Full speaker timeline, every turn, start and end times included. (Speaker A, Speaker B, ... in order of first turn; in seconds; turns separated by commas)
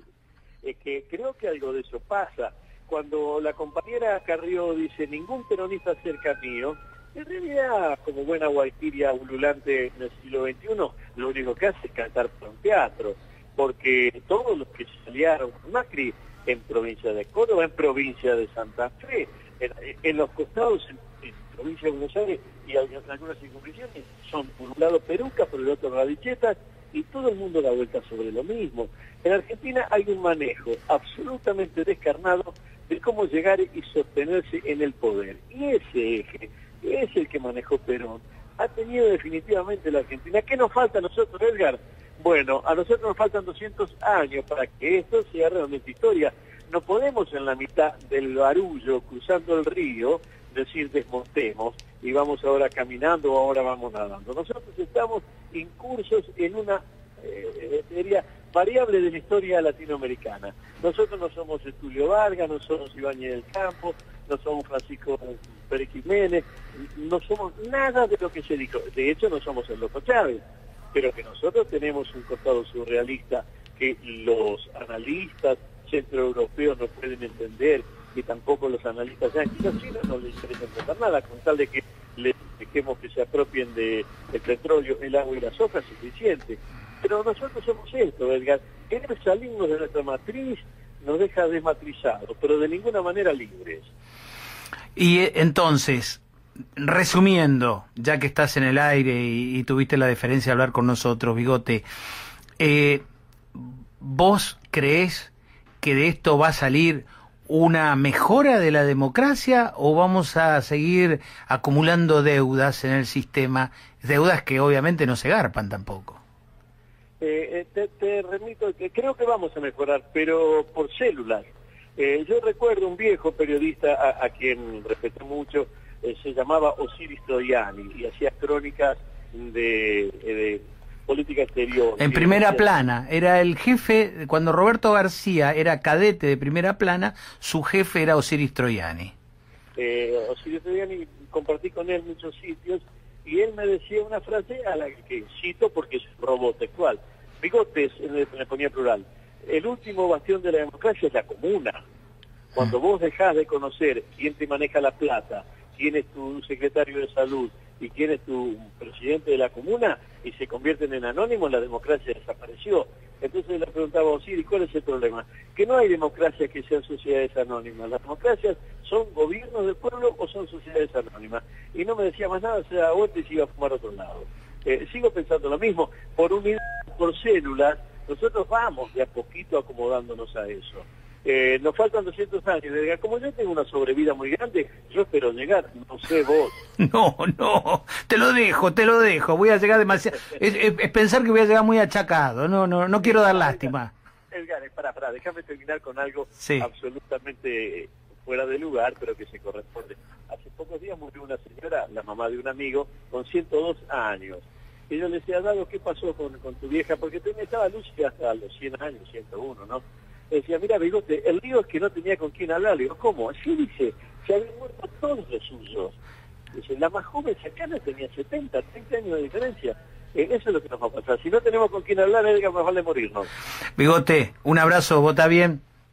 Speaker A: 0.6-70.4, Speaker A: 70.9-93.9, Speaker B: 95.0-96.2, Speaker B: 96.8-101.8, Speaker B: 102.6-103.0, Speaker B: 103.5-116.2, Speaker A: 117.2-132.7, Speaker B: 132.0-139.1, Speaker A: 139.8-151.8, Speaker A: 152.5-186.6, Speaker B: 186.8-193.9, Speaker A: 193.0-193.7, Speaker A: 194.3-216.0, Speaker B: 196.4-196.7, Speaker A: 216.5-223.3, Speaker B: 223.8-225.6